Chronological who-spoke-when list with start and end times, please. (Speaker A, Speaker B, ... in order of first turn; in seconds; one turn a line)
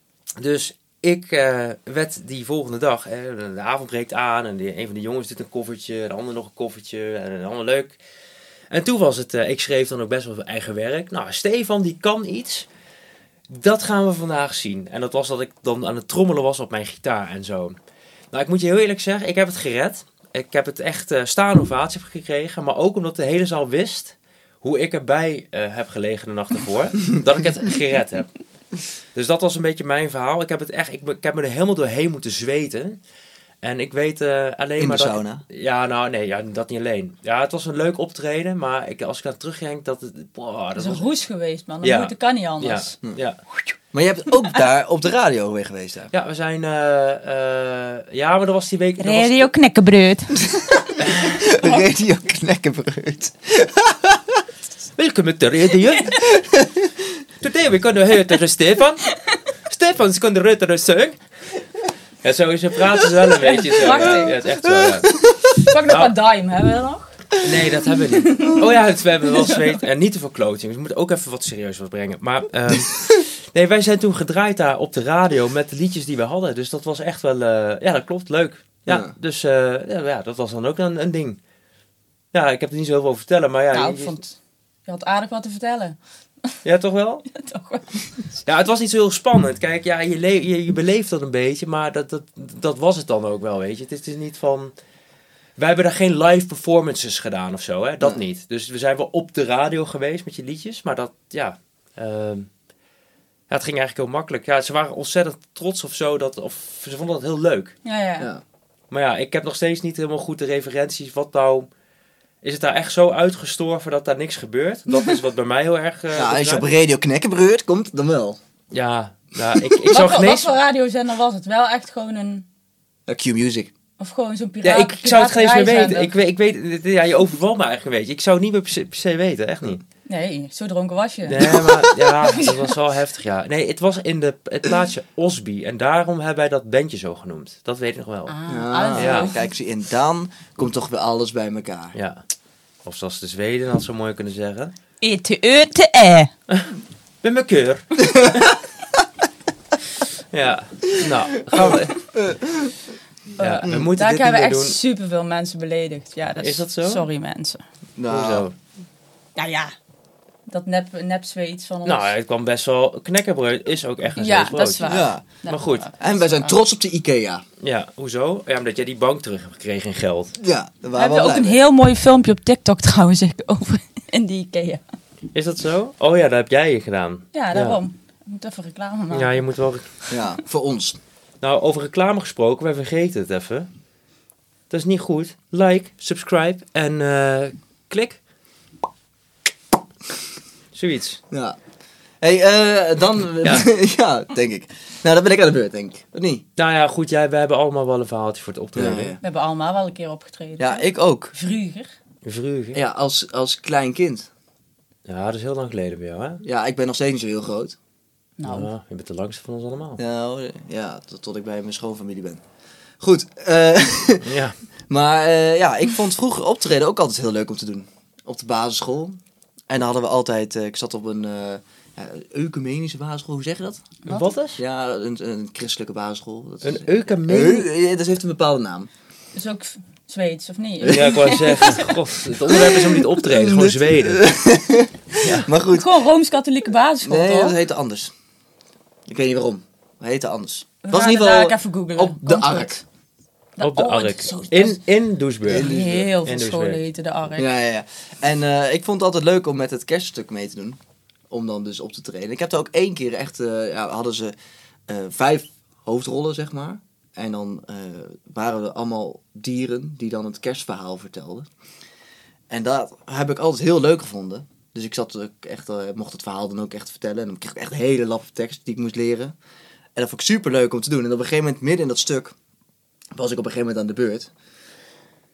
Speaker A: 0.4-8.0
Speaker A: 8.7-12.7
Speaker A: 13.5-17.8
Speaker A: 18.3-28.3
Speaker A: 29.1-33.0
Speaker A: 33.6-41.1
Speaker B: 34.8-35.4
Speaker C: 40.8-42.9
Speaker A: 41.8-43.4
Speaker B: 43.9-46.1
Speaker A: 46.1-49.5
Speaker C: 49.0-50.4
Speaker B: 50.4-54.4
Speaker A: 51.0-51.3
Speaker A: 55.0-56.2
Speaker B: 56.2-56.9
Speaker A: 57.4-59.0
Speaker A: 59.6-61.2
Speaker A: 62.2-65.2
Speaker C: 63.3-64.4
Speaker B: 63.9-64.2
Speaker B: 64.8-65.5
Speaker C: 65.5-67.3
Speaker A: 65.8-66.1
Speaker A: 67.4-81.4
Speaker C: 68.1-68.8
Speaker C: 69.3-69.7
Speaker B: 78.9-79.1
Speaker A: 82.3-84.2
Speaker C: 83.7-84.3
Speaker C: 84.9-86.6
Speaker A: 86.6-87.2
Speaker C: 87.3-88.4
Speaker A: 88.5-94.7
Speaker A: 95.6-102.5
Speaker A: 103.5-107.8
Speaker C: 107.8-108.3
Speaker A: 108.9-111.7
Speaker A: 112.4-116.7
Speaker B: 116.1-118.4
Speaker A: 118.7-120.5
Speaker C: 119.9-122.5
Speaker B: 123.1-123.7
Speaker C: 124.0-126.1
Speaker A: 124.6-129.8
Speaker C: 130.1-131.7
Speaker A: 131.2-138.3
Speaker B: 131.4-132.0
Speaker C: 132.2-132.7
Speaker C: 138.3-139.4
Speaker B: 138.5-141.9
Speaker A: 138.9-139.3
Speaker A: 141.9-142.2
Speaker A: 142.8-144.8
Speaker C: 145.0-146.3
Speaker A: 146.5-148.5
Speaker B: 148.0-148.5
Speaker A: 150.3-152.0
Speaker B: 150.9-152.8
Speaker C: 153.4-157.6
Speaker A: 153.4-154.8
Speaker B: 153.6-153.9
Speaker A: 156.4-157.1
Speaker B: 158.0-158.5
Speaker A: 158.1-158.5
Speaker C: 159.3-159.7
Speaker C: 160.5-162.1
Speaker A: 161.8-165.9
Speaker C: 164.2-166.6
Speaker B: 164.8-165.3
Speaker B: 166.0-167.4
Speaker A: 167.6-170.3
Speaker B: 170.4-171.6
Speaker C: 170.9-174.8
Speaker A: 175.3-177.8
Speaker C: 177.3-179.4
Speaker A: 179.1-179.9
Speaker B: 180.1-181.0
Speaker A: 181.4-183.7
Speaker A: 184.7-188.2
Speaker A: 190.7-191.2
Speaker B: 191.3-191.6
Speaker B: 192.2-196.4
Speaker A: 193.4-193.7
Speaker A: 196.6-199.1
Speaker B: 198.8-199.2
Speaker C: 199.2-201.9
Speaker B: 200.6-201.3
Speaker A: 202.2-202.8
Speaker B: 202.7-204.3
Speaker A: 205.1-206.4
Speaker B: 206.4-207.8
Speaker C: 208.4-208.7
Speaker A: 208.4-210.0
Speaker B: 210.0-212.4
Speaker B: 213.0-214.3
Speaker A: 214.2-214.6
Speaker B: 214.9-223.9
Speaker A: 224.1-224.6
Speaker B: 224.6-228.9
Speaker A: 226.6-227.7
Speaker C: 229.3-233.0
Speaker B: 230.8-231.4
Speaker A: 230.9-234.2
Speaker B: 233.2-235.9
Speaker A: 235.2-235.5
Speaker C: 235.7-237.6
Speaker B: 237.0-238.1
Speaker B: 239.1-242.8
Speaker C: 240.8-242.8
Speaker C: 243.6-244.8
Speaker A: 243.6-245.7
Speaker B: 245.4-246.1
Speaker C: 245.5-247.5
Speaker A: 246.2-246.8
Speaker B: 247.3-250.8
Speaker B: 251.3-254.3
Speaker B: 254.9-261.5
Speaker B: 262.5-269.3
Speaker B: 269.9-272.3
Speaker B: 273.1-274.3